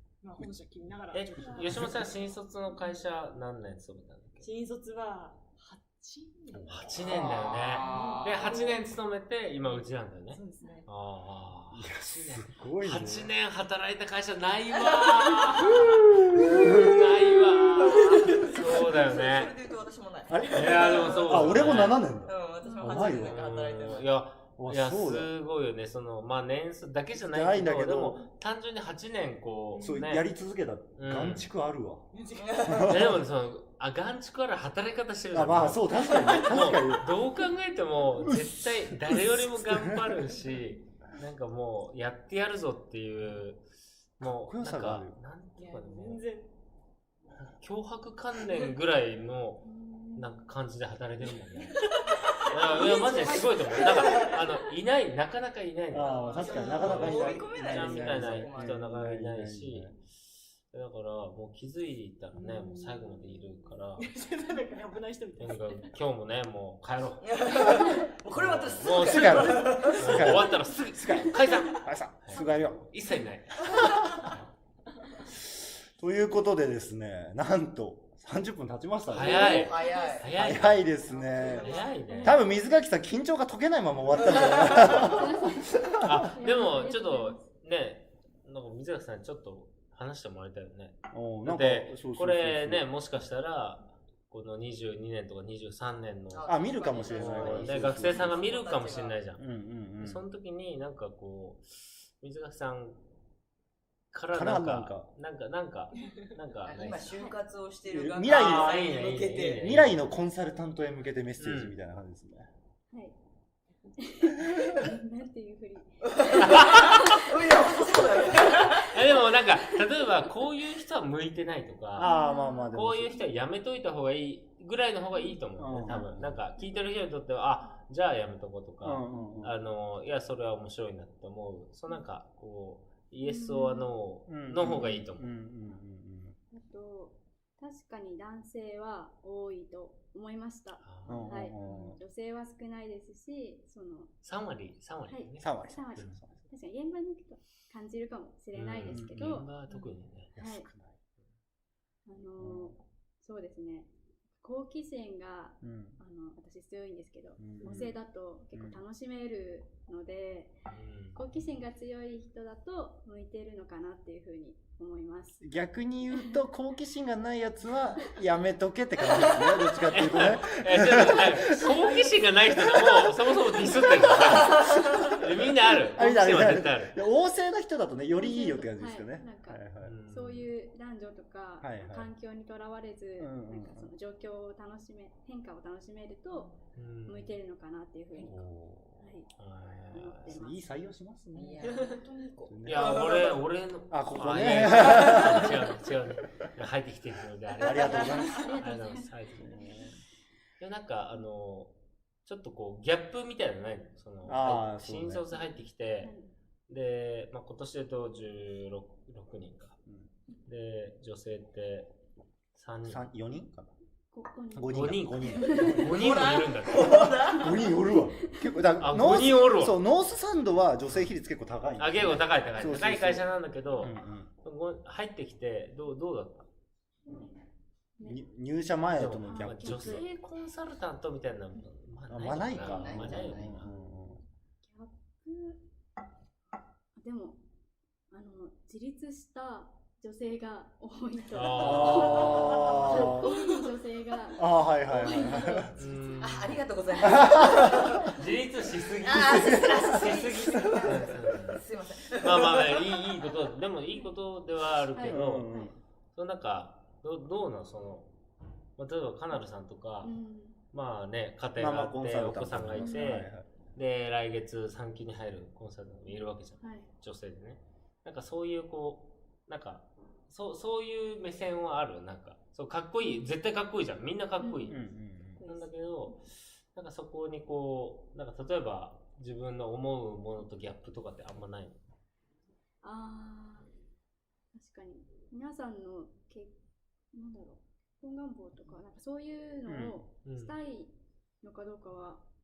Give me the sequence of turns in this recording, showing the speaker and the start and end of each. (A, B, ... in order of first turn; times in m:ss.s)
0:00.2-0:02.1 A
0:01.1-0:04.5 B
0:01.4-0:01.8 C
0:01.6-0:02.1 D
0:04.4-0:08.9 A
0:06.5-0:07.4 D
0:06.7-0:19.5 B
0:07.1-0:08.8 E
0:09.6-0:10.9 A
0:11.7-0:13.3 D
0:14.9-0:15.5 E
0:15.6-0:17.4 D
0:17.9-0:24.1 E
0:20.3-0:23.4 D
0:20.5-0:22.1 B
0:22.6-0:23.0 C
0:23.1-0:30.3 B
0:24.6-0:25.3 D
0:27.2-0:28.3 D
0:29.7-0:30.1 A
0:29.8-0:32.1 D
0:31.0-0:31.5 B
0:32.1-0:32.9 A
0:32.4-0:32.9 E
0:32.7-0:33.2 D
0:32.8-0:43.6 B
0:35.3-0:37.1 D
0:38.2-0:40.2 D
0:44.2-0:46.2 B
0:44.2-0:45.2 D
0:45.6-0:46.5 A
0:47.4-0:51.8 B
0:49.7-0:50.3 C
0:52.1-0:54.4 E
0:52.4-1:00.0 B
0:52.8-0:53.3 A
0:55.9-0:59.9 D
0:56.1-0:58.8 E
0:56.2-0:57.2 A
1:00.7-1:04.1 B
1:02.3-1:06.0 A
1:05.4-1:07.6 B
1:07.2-1:10.5 E
1:08.4-1:14.4 B
1:08.4-1:12.8 D
1:15.4-1:26.3 D
1:19.1-1:20.3 E
1:19.1-1:21.0 B
1:21.1-1:21.9 A
1:21.1-1:22.0 E
1:21.5-1:22.4 B
1:22.1-1:22.4 C
1:24.2-1:25.2 E
1:25.0-1:27.5 C
1:26.0-1:39.4 B
1:31.1-1:32.9 D
1:36.3-1:39.2 E
1:36.5-1:38.4 D
1:39.4-1:40.2 D
1:40.0-1:43.0 B
1:44.1-1:47.2 B
1:44.3-1:45.1 D
1:46.7-1:49.9 E
1:47.9-1:52.5 D
1:48.2-1:50.0 B
1:51.4-1:51.8 B
1:52.9-1:53.2 C
1:54.0-1:57.3 C
1:54.5-1:54.8 D
1:56.1-1:58.9 E
1:56.4-1:57.2 B
1:58.8-2:02.2 B
2:02.0-2:03.2 D
2:02.0-2:02.8 C
2:02.7-2:15.3 B
2:05.1-2:06.8 C
2:05.6-2:06.4 D
2:08.8-2:09.5 D
2:13.2-2:13.9 C
2:14.3-2:16.4 D
2:14.6-2:15.0 C
2:16.5-2:24.1 C
2:20.8-2:21.4 B
2:21.1-2:22.0 D
2:24.2-2:26.2 B
2:25.1-2:29.5 C
2:25.4-2:26.4 D
2:28.5-2:30.3 B
2:28.9-2:29.2 D
2:30.4-2:30.7 C
2:30.4-2:31.0 D
2:32.1-2:40.6 C
2:32.4-2:32.8 D
2:35.6-2:36.0 D
2:37.4-2:38.0 D
2:38.5-2:38.8 D
2:40.7-2:41.2 B
2:41.1-2:45.4 C
2:45.4-2:51.8 D
2:46.1-2:46.4 C
2:49.9-2:57.0 B
2:52.5-2:52.9 D
2:54.4-2:55.1 D
2:56.0-3:00.0 D
2:58.1-3:06.5 C
2:59.8-3:00.5 B
3:01.6-3:02.1 D
3:03.2-3:03.9 D
3:06.3-3:06.6 A
3:06.8-3:07.4 B
3:07.1-3:09.3 C
3:08.2-3:09.1 D
3:09.4-3:10.3 B
3:09.9-3:10.7 C
3:10.3-3:11.7 D
3:11.3-3:13.4 E
3:11.6-3:12.0 A
3:12.5-3:13.2 D
3:12.6-3:19.7 B
3:13.9-3:15.7 D
3:17.6-3:18.5 D
3:17.8-3:20.0 C
3:19.4-3:20.0 D
3:20.6-3:21.7 B
3:22.2-3:26.1 B
3:24.3-3:25.2 D
3:25.3-3:26.3 C
3:26.7-3:29.8 B
3:30.5-3:31.9 B
3:32.6-3:33.1 B
3:32.9-3:33.7 D
3:34.1-3:36.0 C
3:34.5-3:36.0 D
3:34.7-3:37.1 B
3:35.9-3:37.8 E
3:36.9-3:43.3 D
3:38.8-3:39.8 B
3:41.8-3:46.5 B
3:43.8-3:44.3 D
3:48.0-3:50.0 D
3:49.0-3:53.7 B
3:49.3-3:50.1 C
3:52.1-3:54.2 D
3:52.5-3:53.6 E
3:53.7-3:55.6 C
3:57.0-3:57.4 C
3:58.1-4:06.3 C
4:01.3-4:03.2 B
4:01.6-4:03.3 D
4:04.4-4:05.7 D
4:05.7-4:06.6 B
4:06.2-4:08.1 E
4:07.0-4:07.3 C
4:07.0-4:08.0 D
4:08.1-4:15.5 B
4:09.0-4:12.9 E
4:09.2-4:11.1 D
4:14.9-4:15.8 C
4:15.0-4:15.8 D
4:16.1-4:18.1 B
4:18.8-4:20.1 B
4:20.0-4:20.6 C
4:20.7-4:34.8 B
4:21.6-4:23.5 D
4:22.8-4:23.2 C
4:26.1-4:26.9 C
4:33.0-4:33.4 C
4:34.4-4:36.2 C
4:34.7-4:35.4 D
4:35.4-4:41.8 B
4:42.8-4:43.7 C
4:44.5-4:46.5 C
4:47.1-4:52.2 C
4:49.7-4:50.0 D
4:50.2-4:50.5 B